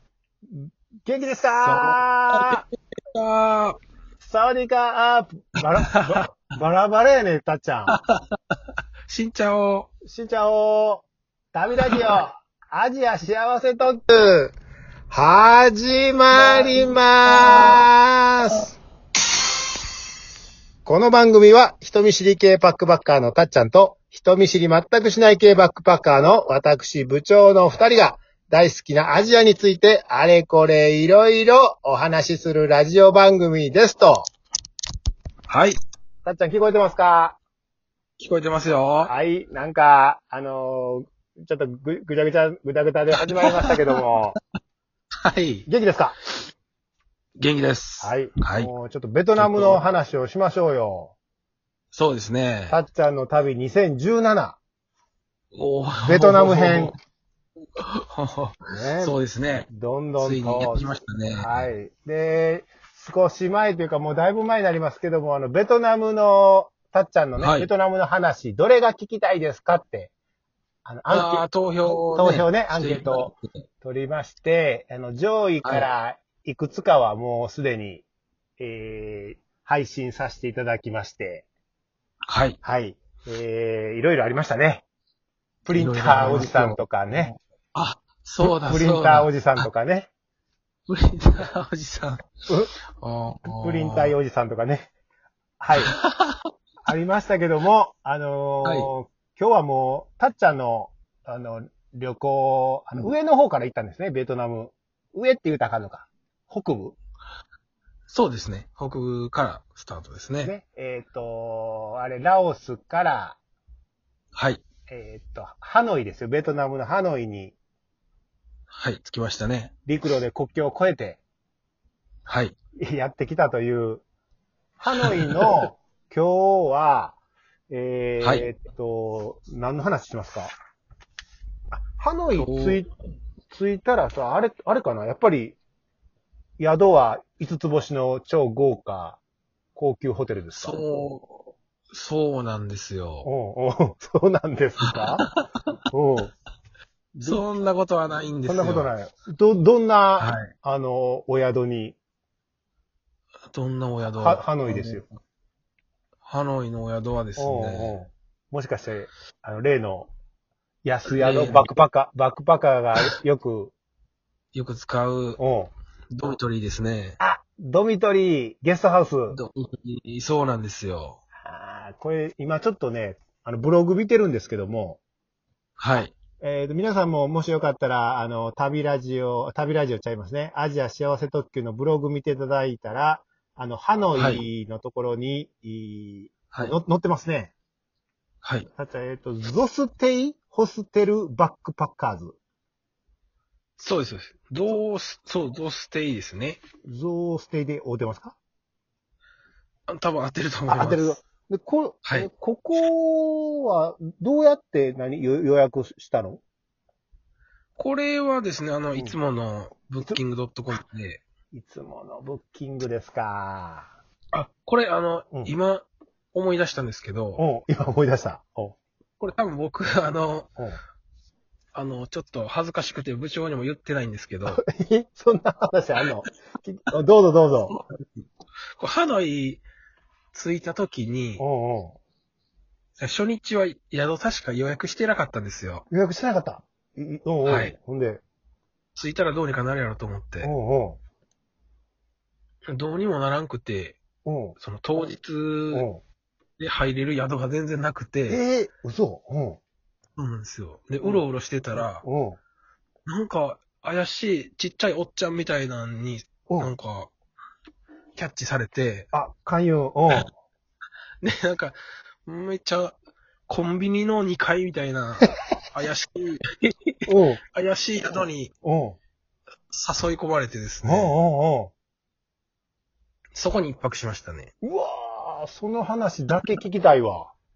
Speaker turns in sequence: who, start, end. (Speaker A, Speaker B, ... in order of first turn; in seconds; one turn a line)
Speaker A: 0.5-2.6
Speaker B: 1.5-3.8
Speaker A: 4.2-8.0
Speaker B: 5.6-6.2
Speaker B: 7.9-8.6
Speaker B: 9.1-9.9
Speaker A: 10.0-14.6
Speaker A: 15.1-18.8
Speaker B: 16.5-16.7
Speaker B: 17.3-17.9
Speaker A: 20.8-34.3
Speaker B: 35.5-35.8
Speaker A: 36.2-37.4
Speaker B: 38.2-39.1
Speaker A: 39.0-44.4
Speaker B: 43.2-44.0
Speaker B: 45.2-45.7
Speaker A: 45.7-46.2
Speaker B: 47.4-48.7
Speaker A: 48.0-51.1
Speaker B: 49.4-49.8
Speaker B: 51.9-52.8
Speaker A: 52.7-54.6
Speaker B: 55.5-57.0
Speaker A: 56.0-57.0
Speaker B: 57.8-59.7
Speaker A: 58.7-59.2
Speaker A: 59.7-70.1
Speaker B: 60.2-61.7
Speaker B: 67.4-67.7
Speaker A: 70.8-78.0
Speaker B: 71.1-73.5
Speaker B: 75.6-75.9
Speaker A: 78.6-81.5
Speaker B: 82.3-82.6
Speaker A: 82.6-84.8
Speaker A: 85.7-87.3
Speaker B: 85.7-89.6
Speaker A: 88.4-90.1
Speaker B: 90.9-92.3
Speaker B: 93.0-94.1
Speaker A: 93.5-94.9
Speaker A: 95.6-96.0
Speaker B: 95.8-96.5
Speaker A: 96.9-107.0
Speaker B: 98.6-98.9
Speaker B: 108.1-110.5
Speaker A: 110.4-113.4
Speaker B: 114.3-114.6
Speaker A: 114.9-117.5
Speaker B: 118.7-119.7
Speaker A: 119.9-121.2
Speaker B: 122.3-122.6
Speaker A: 122.8-124.0
Speaker A: 124.8-127.2
Speaker B: 125.0-125.6
Speaker A: 127.7-130.5
Speaker B: 128.2-128.5
Speaker A: 131.7-132.9
Speaker B: 132.3-132.8
Speaker A: 133.5-135.6
Speaker A: 136.6-139.2
Speaker A: 139.8-140.8
Speaker B: 140.5-143.3
Speaker A: 143.2-145.2
Speaker B: 144.9-145.7
Speaker A: 145.9-146.3
Speaker A: 147.2-147.4
Speaker B: 147.2-148.9
Speaker A: 148.5-152.0
Speaker B: 150.2-150.5
Speaker B: 153.5-155.1
Speaker A: 154.0-155.1
Speaker B: 156.2-158.0
Speaker A: 157.4-160.1
Speaker A: 160.8-163.7
Speaker B: 161.1-161.7
Speaker B: 164.5-165.4
Speaker A: 165.4-165.7
Speaker B: 166.1-167.2
Speaker A: 167.2-169.4
Speaker B: 169.3-171.2
Speaker A: 171.4-175.0
Speaker B: 175.8-176.1
Speaker A: 176.4-187.5
Speaker B: 184.2-184.4
Speaker A: 188.8-192.4
Speaker B: 193.8-196.6
Speaker A: 196.9-198.4
Speaker B: 199.9-201.2
Speaker A: 200.7-206.4
Speaker B: 207.8-211.2
Speaker A: 211.5-213.9
Speaker B: 214.3-217.4
Speaker A: 217.4-218.8
Speaker B: 219.2-220.5
Speaker B: 221.7-224.6
Speaker A: 224.5-227.8
Speaker B: 227.7-228.2
Speaker B: 228.8-229.6
Speaker B: 230.3-231.4
Speaker A: 231.4-232.0
Speaker B: 233.0-235.8
Speaker A: 235.9-238.2
Speaker B: 237.4-237.8
Speaker B: 239.0-240.5
Speaker A: 240.4-241.0
Speaker B: 242.7-244.0
Speaker A: 244.2-244.6
Speaker B: 244.6-245.9
Speaker A: 245.7-246.0
Speaker B: 246.6-248.4
Speaker A: 248.3-249.6
Speaker B: 250.2-252.0
Speaker A: 251.8-252.4
Speaker B: 253.1-257.1
Speaker B: 258.1-259.1
Speaker A: 259.1-260.3
Speaker B: 261.2-262.9
Speaker B: 263.5-268.5
Speaker A: 267.1-267.4
Speaker A: 268.6-269.0
Speaker B: 269.7-271.1
Speaker A: 270.8-271.7
Speaker B: 273.3-274.5
Speaker A: 274.6-277.3